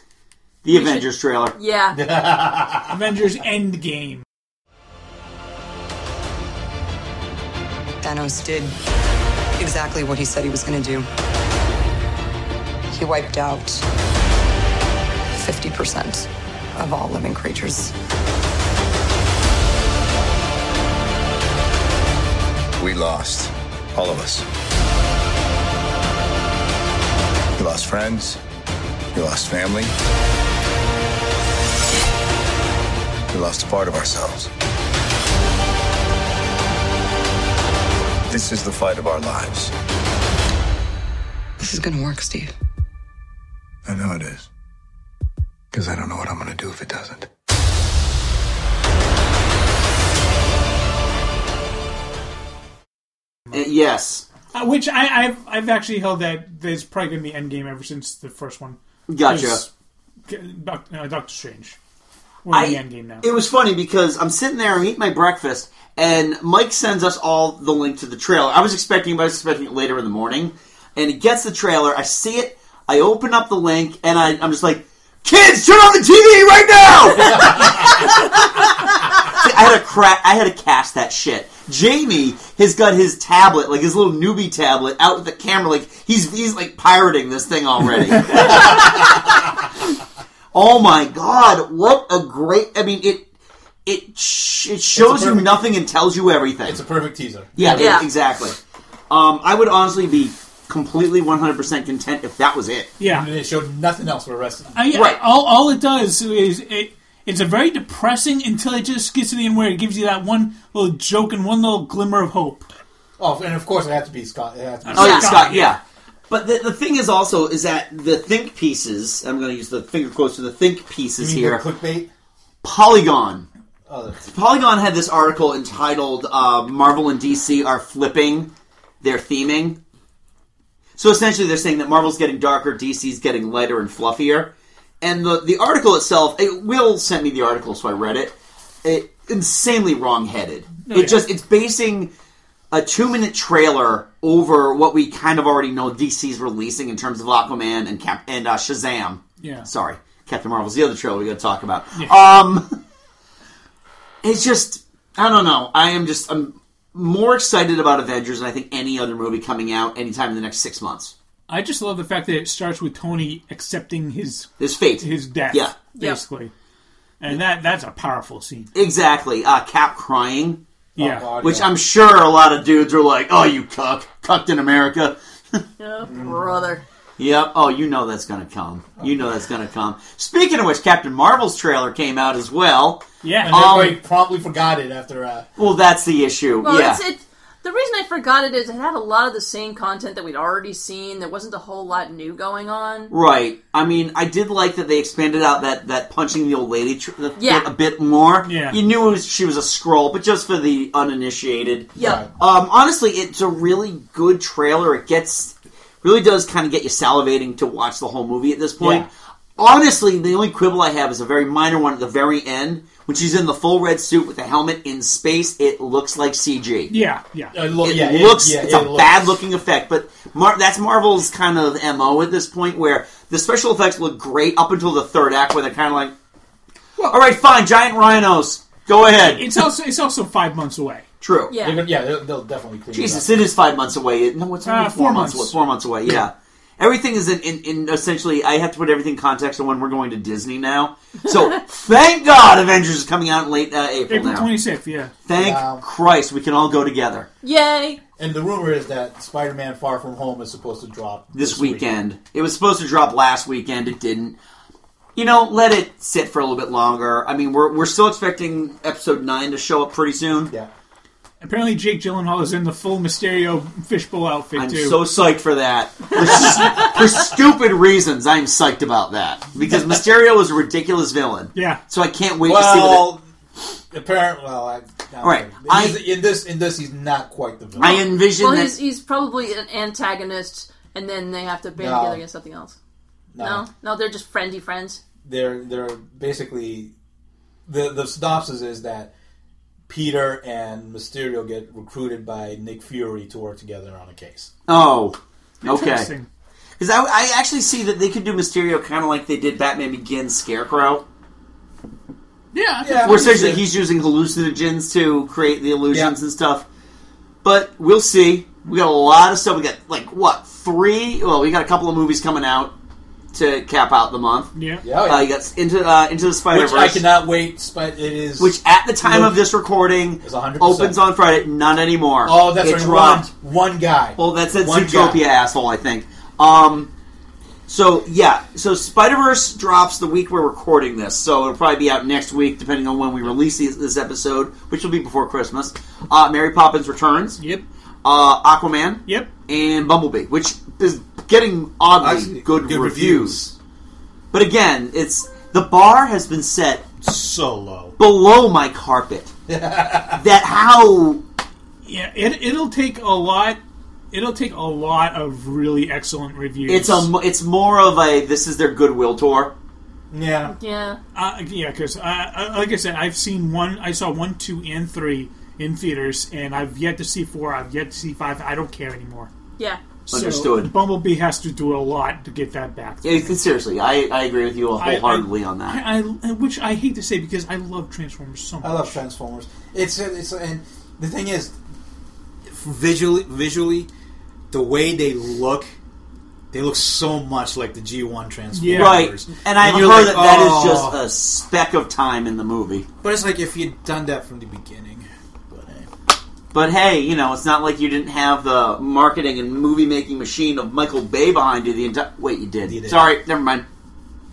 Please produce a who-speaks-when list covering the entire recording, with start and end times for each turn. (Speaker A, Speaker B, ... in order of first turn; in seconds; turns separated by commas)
Speaker A: 0.6-1.5, Speaker B: 0.7-2.0, Speaker C: 1.9-2.9, Speaker D: 2.9-4.2, Speaker E: 8.0-8.7, Speaker E: 9.6-11.1, Speaker E: 12.9-13.8, Speaker E: 15.3-17.9, Speaker F: 22.8-24.4, Speaker F: 27.6-28.4, Speaker F: 29.1-29.9, Speaker F: 33.3-34.5, Speaker F: 38.3-39.7, Speaker E: 41.6-42.5, Speaker F: 43.9-44.5, Speaker F: 45.7-47.3, Speaker A: 53.5-54.2, Speaker D: 54.5-59.7, Speaker A: 59.1-59.6, Speaker D: 60.3-61.8, Speaker D: 62.5-63.2, Speaker A: 62.5-89.5, Speaker C: 88.3-89.0, Speaker A: 90.5-93.2, Speaker A: 93.8-96.8, Speaker C: 95.0-95.6, Speaker C: 96.6-98.0, Speaker A: 97.6-98.6, Speaker B: 97.7-98.1, Speaker A: 99.1-102.9, Speaker D: 103.0-103.3, Speaker C: 103.0-104.8, Speaker D: 104.7-112.7, Speaker A: 104.9-105.2, Speaker C: 113.2-115.4, Speaker D: 114.8-115.8, Speaker A: 114.9-121.6, Speaker C: 121.2-122.1, Speaker A: 122.6-123.5, Speaker C: 123.9-124.2, Speaker A: 124.2-128.5, Speaker A: 129.0-129.8, Speaker A: 131.0-142.1, Speaker D: 140.9-141.2, Speaker A: 142.7-152.8, Speaker D: 149.4-149.7, Speaker A: 154.2-161.1, Speaker D: 161.5-166.5, Speaker A: 164.6-165.7, Speaker B: 165.9-166.2, Speaker D: 167.2-168.7, Speaker A: 168.7-170.6, Speaker D: 171.0-171.3, Speaker C: 171.0-171.7, Speaker A: 171.4-175.6, Speaker B: 175.8-176.8, Speaker A: 177.2-184.0, Speaker D: 183.2-183.6, Speaker C: 183.4-185.5, Speaker A: 185.6-187.0, Speaker B: 186.6-193.1, Speaker A: 193.1-216.9, Speaker B: 197.4-197.7, Speaker D: 198.4-198.8, Speaker B: 202.0-202.2, Speaker C: 202.0-202.3, Speaker C: 208.8-209.1, Speaker D: 216.9-217.6, Speaker C: 217.5-219.4, Speaker A: 217.8-226.1, Speaker A: 227.1-229.4, Speaker D: 229.2-231.0, Speaker A: 231.2-231.5, Speaker B: 231.5-231.8, Speaker C: 231.6-233.5, Speaker A: 232.9-244.5, Speaker D: 234.6-235.6, Speaker D: 244.1-245.1, Speaker A: 245.2-247.3, Speaker C: 245.3-245.8, Speaker B: 247.4-248.0, Speaker C: 248.2-251.8, Speaker A: 251.3-254.3, Speaker A: 255.2-260.5, Speaker D: 261.4-265.0, Speaker A: 264.6-273.1, Speaker D: 271.5-271.8, Speaker C: 272.4-273.2, Speaker C: 273.9-278.0, Speaker A: 275.2-276.1, Speaker A: 277.8-278.8, Speaker B: 277.8-282.8, Speaker C: 281.8-282.2, Speaker C: 283.3-283.7, Speaker B: 283.4-285.0, Speaker C: 285.2-286.9, Speaker C: 287.6-289.1, Speaker C: 289.9-294.5, Speaker A: 294.7-296.1, Speaker D: 295.6-296.3, Speaker A: 296.8-301.0, Speaker D: 302.5-303.5, Speaker C: 302.8-303.6, Speaker A: 303.0-306.6, Speaker C: 305.9-306.1, Speaker A: 307.4-312.7, Speaker A: 313.3-317.0, Speaker D: 314.5-314.8, Speaker C: 314.8-315.3, Speaker C: 316.5-319.4, Speaker A: 318.4-323.3, Speaker C: 320.2-321.0, Speaker C: 322.2-325.2, Speaker A: 324.2-326.9, Speaker A: 327.7-337.4, Speaker D: 337.4-337.6, Speaker A: 338.0-343.4, Speaker C: 342.0-343.5, Speaker A: 344.3-346.9, Speaker C: 347.0-347.9, Speaker A: 348.0-349.3, Speaker C: 349.5-350.2, Speaker A: 350.1-351.2, Speaker D: 351.8-353.6, Speaker D: 354.1-357.1, Speaker A: 356.7-359.5, Speaker C: 360.1-360.5, Speaker B: 360.6-361.0, Speaker D: 361.1-369.3, Speaker D: 370.1-373.4, Speaker A: 370.1-370.7, Speaker A: 373.0-375.8, Speaker D: 374.8-378.9, Speaker C: 378.6-381.6, Speaker C: 382.5-383.9, Speaker C: 384.5-385.8, Speaker C: 386.5-391.0, Speaker D: 388.5-389.1, Speaker A: 388.7-392.9, Speaker C: 393.0-395.9, Speaker A: 396.5-403.6, Speaker C: 402.6-403.1